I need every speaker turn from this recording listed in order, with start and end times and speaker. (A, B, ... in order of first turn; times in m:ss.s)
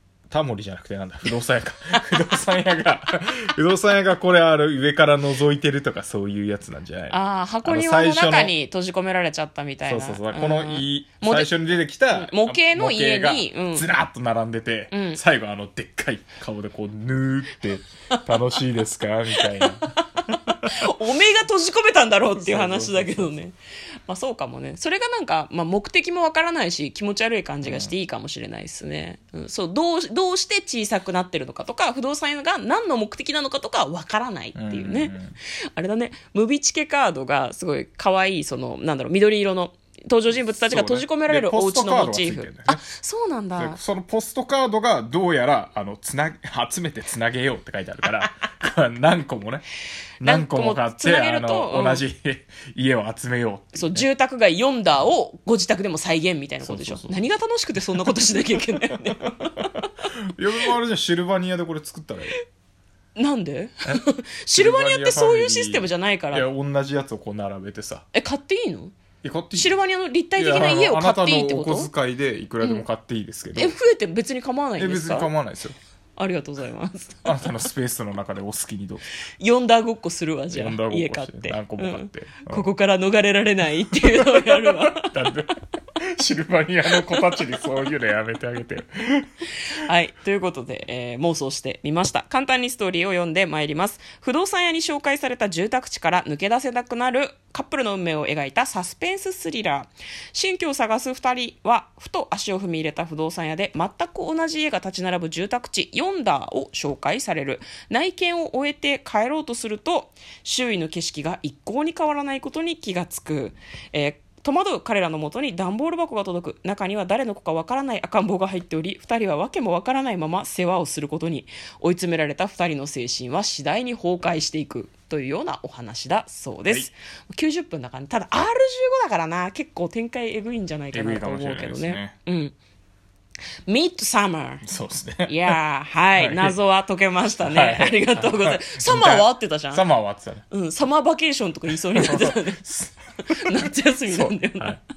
0:00.3-0:08.6 A
0:07.1-0:11.5 B
0:09.8-0:20.9 A
0:12.1-0:13.9 B
0:14.9-0:15.2 B
0:19.4-0:35.2 B
0:22.4-0:23.4 A
0:27.6-0:27.9 A
0:34.6-0:35.4 A
0:35.7-0:43.8 B
0:40.5-0:42.9 A
0:43.6-0:49.7 A
0:50.2-0:54.1 A
0:50.2-0:52.0 B
0:53.8-0:59.7 B
0:56.6-0:57.2 A
0:58.9-1:02.4 A
1:03.2-1:06.5 B
1:03.9-1:08.0 A
1:08.1-1:08.9 B
1:09.2-1:09.8 A
1:09.5-1:11.9 B
1:10.4-1:13.8 A
1:12.6-1:12.9 B
1:13.6-1:15.3 B
1:14.8-1:15.8 A
1:16.2-1:17.5 B
1:17.2-1:19.0 A
1:19.4-1:25.3 B
1:20.5-1:22.7 A
1:24.0-1:29.4 A
1:29.7-2:12.6 B
2:10.9-2:12.2 A
2:13.7-2:14.6 B
2:14.6-2:15.6 A
2:15.3-2:19.8 B
2:16.2-2:16.6 A
2:17.4-2:20.4 A
2:20.5-2:22.6 B
2:21.8-2:24.8 A
2:23.2-2:24.8 B